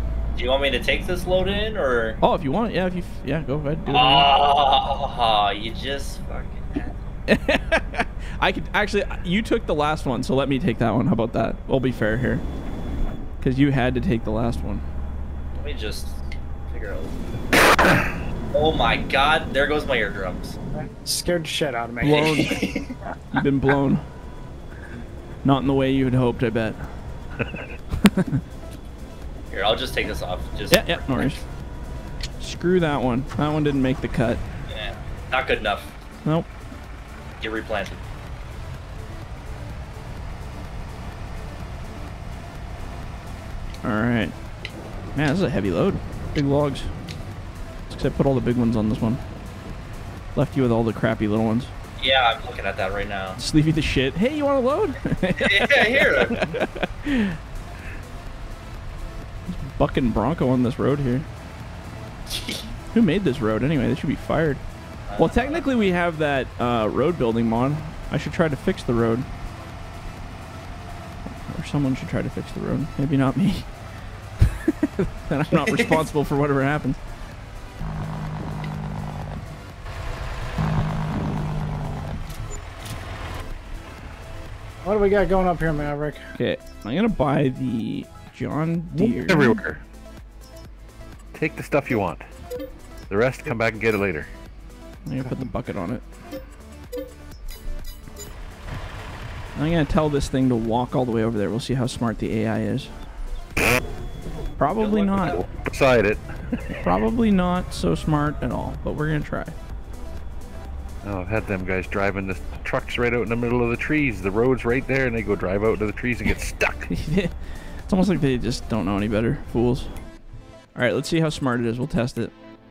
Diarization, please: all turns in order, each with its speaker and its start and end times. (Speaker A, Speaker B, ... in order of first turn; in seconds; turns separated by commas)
Speaker A: 0.3-2.2, Speaker B: 2.2-4.3, Speaker A: 3.9-7.0, Speaker B: 7.3-12.4, Speaker B: 13.4-14.8, Speaker A: 15.6-17.3, Speaker A: 18.5-20.5, Speaker C: 20.8-22.6, Speaker B: 22.0-22.6, Speaker A: 22.1-22.9, Speaker B: 23.3-24.0, Speaker B: 25.4-26.8, Speaker D: 27.4-27.7, Speaker B: 28.0-28.4, Speaker A: 29.5-31.4, Speaker B: 30.7-31.4, Speaker B: 32.4-34.4, Speaker A: 34.7-35.9, Speaker A: 37.4-38.0, Speaker B: 43.8-44.3, Speaker B: 45.1-46.9, Speaker B: 47.9-49.2, Speaker B: 50.3-51.7, Speaker A: 52.0-53.4, Speaker B: 53.4-57.4, Speaker A: 55.4-56.5, Speaker B: 59.5-61.3, Speaker B: 62.9-64.6, Speaker A: 65.1-65.6, Speaker B: 65.2-69.3, Speaker B: 71.5-73.7, Speaker B: 74.4-77.0, Speaker A: 75.7-76.0, Speaker C: 84.8-86.2, Speaker B: 86.4-89.6, Speaker D: 89.0-89.8, Speaker D: 91.3-92.2, Speaker D: 93.1-94.3, Speaker B: 95.0-96.0, Speaker B: 99.5-102.9, Speaker B: 104.6-105.4, Speaker A: 104.8-105.5, Speaker D: 105.2-106.8, Speaker B: 106.8-109.5, Speaker D: 111.0-116.9, Speaker B: 116.9-120.0, Speaker B: 120.7-122.3